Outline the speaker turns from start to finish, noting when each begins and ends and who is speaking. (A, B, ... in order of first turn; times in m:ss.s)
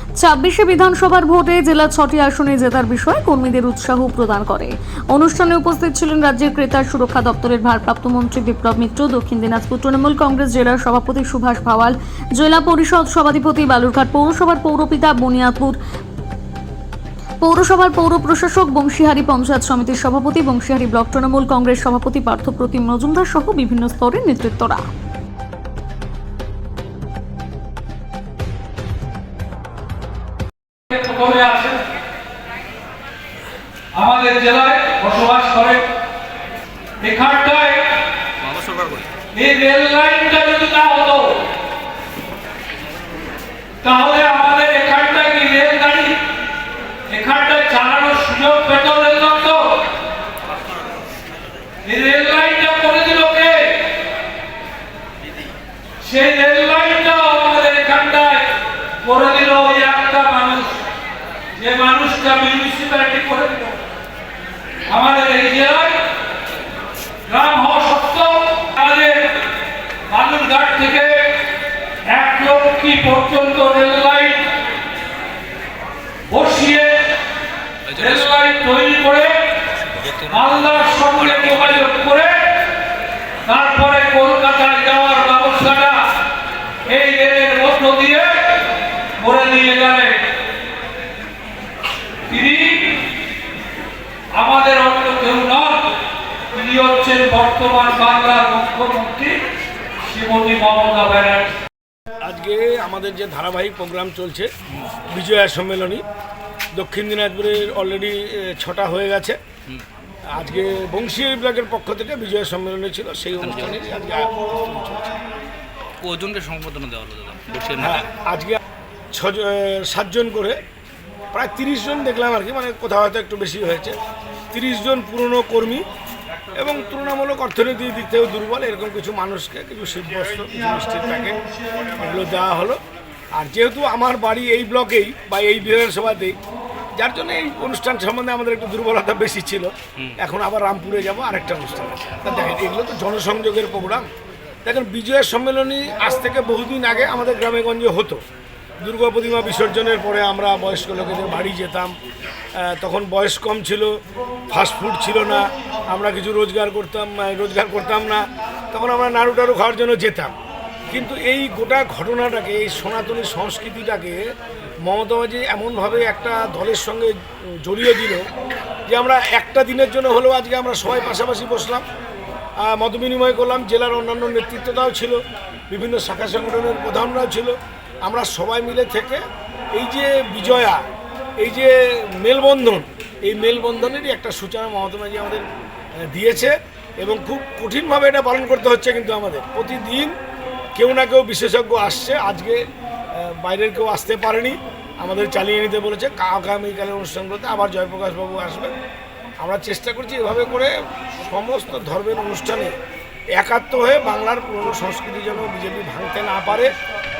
0:00.2-0:15.8 A
0:17.4-0:24.8 A
0:30.9-0:31.8 B
0:33.9-0:35.9 B
0:37.0-0:38.0 B
0:38.4-0:39.1 C
0:39.3-0:41.5 B
0:43.8-0:46.2 B
0:47.1-0:49.8 B
0:51.8-0:53.9 B
0:56.0-1:00.8 B
1:01.6-1:03.8 B
1:04.9-1:06.0 B
1:07.3-1:09.4 B
1:10.1-1:11.4 B
1:12.1-1:14.5 B
1:16.3-1:17.1 B
1:17.8-1:18.3 C
1:18.0-1:19.5 B
1:19.8-1:21.9 C
1:20.3-1:22.4 B
1:23.4-1:26.1 B
1:26.9-1:28.6 B
1:29.2-1:30.3 B
1:32.3-1:33.0 B
1:34.3-1:36.0 B
1:36.5-1:39.4 B
1:40.1-1:41.5 B
1:42.2-1:44.5 D
1:45.1-1:46.0 D
1:46.7-1:49.4 D
1:50.3-1:55.0 D
1:53.4-1:53.9 C
1:56.0-1:58.0 C
1:57.8-1:58.6 D
1:59.1-2:00.6 D
2:01.3-2:03.9 D
2:04.5-2:05.8 D
2:06.5-2:11.4 D
2:12.0-2:12.8 D
2:13.3-2:16.3 D
2:17.0-2:24.1 D
2:24.6-2:28.2 D
2:28.8-2:31.9 D
2:32.6-2:33.9 D
2:34.5-2:40.3 D
2:40.9-2:44.2 D
2:44.8-2:48.2 D
2:48.9-2:51.8 D
2:52.6-3:00.8 D
3:01.4-3:05.4 D
3:06.1-3:10.1 D
3:10.8-3:12.6 D
3:13.1-3:18.7 D
3:19.4-3:22.7 D
3:23.4-3:26.7 D